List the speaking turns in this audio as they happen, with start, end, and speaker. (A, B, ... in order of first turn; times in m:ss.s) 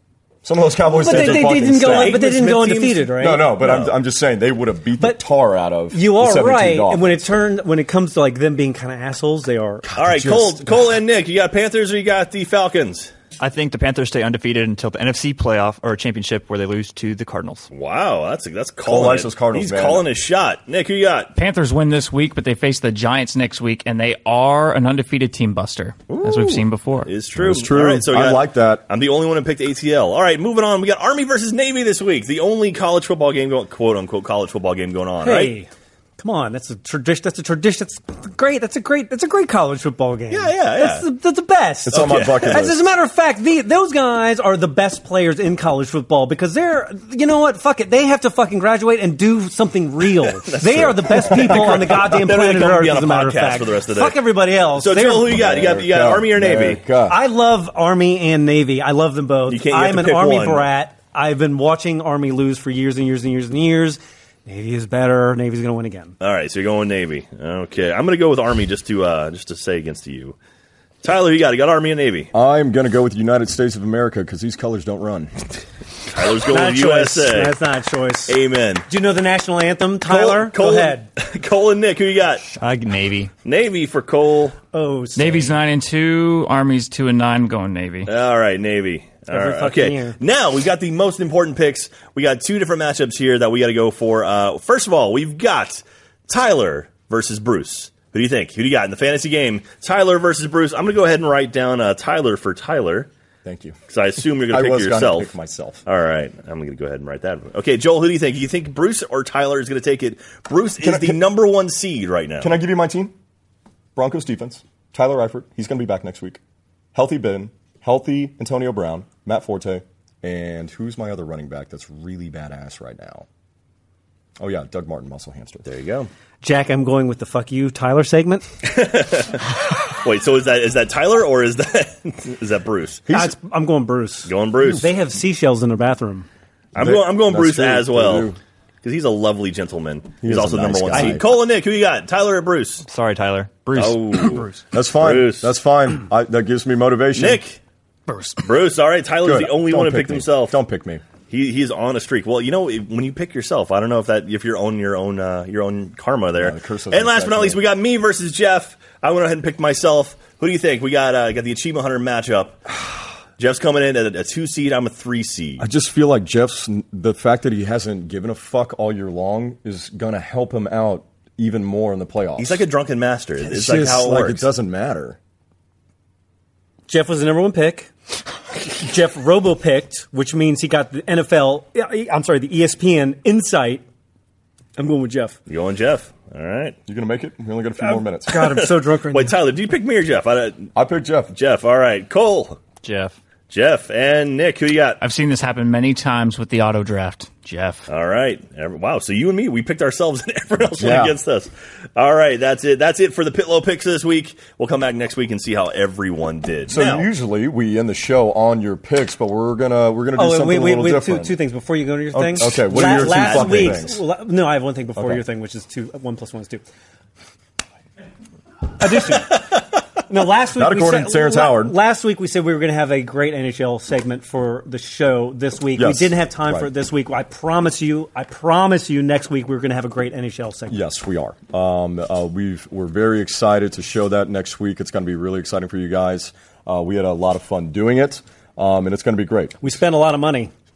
0:00.4-0:02.2 A
0:00.9-0:03.5 B
0:01.1-0:03.9 C
0:03.2-0:07.2 A
0:05.9-0:10.3 B
0:09.9-0:10.6 A
0:10.0-0:13.1 C
0:13.4-0:17.7 D
0:17.7-0:21.3 C
0:18.8-0:20.1 A
0:21.3-0:27.1 E
0:26.1-0:35.6 C
0:27.4-0:28.8 A
0:35.2-0:55.4 B
0:40.3-0:41.0 C
0:41.8-0:42.8 A
0:41.9-0:42.6 C
0:50.4-0:56.8 C
0:51.5-0:51.8 A
0:55.3-0:57.2 A
0:57.1-1:06.2 B
0:59.5-1:00.7 C
1:06.2-1:10.4 C
1:11.0-1:12.3 C
1:12.3-1:15.3 A
1:16.1-1:17.6 C
1:16.5-1:18.4 B
1:18.3-1:18.9 C
1:18.9-1:21.1 B
1:20.0-1:22.4 C
1:22.5-1:23.3 D
1:23.4-1:24.6 C
1:24.7-1:25.5 B
1:25.2-1:28.1 E
1:28.0-1:43.1 C
1:29.3-1:30.2 B
1:43.4-1:43.8 A
1:43.9-1:45.3 C
1:44.5-1:45.8 A
1:45.8-1:52.5 C
1:50.8-1:51.2 A
1:52.4-1:53.1 A
1:53.9-1:56.4 A
1:56.9-2:03.2 A
2:04.4-2:05.6 A
2:05.6-2:06.1 C
2:06.4-2:08.4 B
2:08.6-2:09.4 C
2:10.0-2:13.0 C
2:13.1-2:13.3 A
2:13.1-2:16.3 B
2:14.2-2:14.9 C
2:16.7-2:18.3 C
2:16.7-2:18.4 A
2:18.8-2:22.8 C
2:20.2-2:21.2 A
2:22.8-2:24.4 D
2:23.7-2:25.5 C
2:24.7-2:27.4 A
2:27.2-2:27.6 C
2:28.4-2:30.6 C
2:29.2-2:31.0 A
2:31.3-2:42.7 C
2:36.4-2:37.6 A
2:43.4-2:45.7 C
2:45.6-2:52.6 A
2:52.4-2:54.4 C
2:53.5-2:55.2 A
2:56.9-2:57.9 B
2:58.6-3:03.8 B
3:04.8-3:05.4 B
3:05.5-3:06.8 C
3:06.9-3:08.6 A
3:07.8-3:09.4 B
3:08.4-3:10.7 C
3:10.7-3:11.3 A
3:11.3-3:12.6 C
3:12.8-3:13.1 D
3:13.5-3:15.0 C
3:15.0-3:17.9 E
3:17.9-3:27.1 C
3:20.7-3:21.2 A
3:26.7-3:31.4 A
3:30.2-3:36.6 B
3:32.1-3:34.0 A
3:32.7-3:33.8 C
3:35.0-3:35.2 A
3:38.8-3:39.4 B
3:40.1-3:50.8 B
3:40.5-3:41.8 A
3:45.8-3:46.7 A
3:50.7-3:59.6 A
3:59.6-4:00.5 B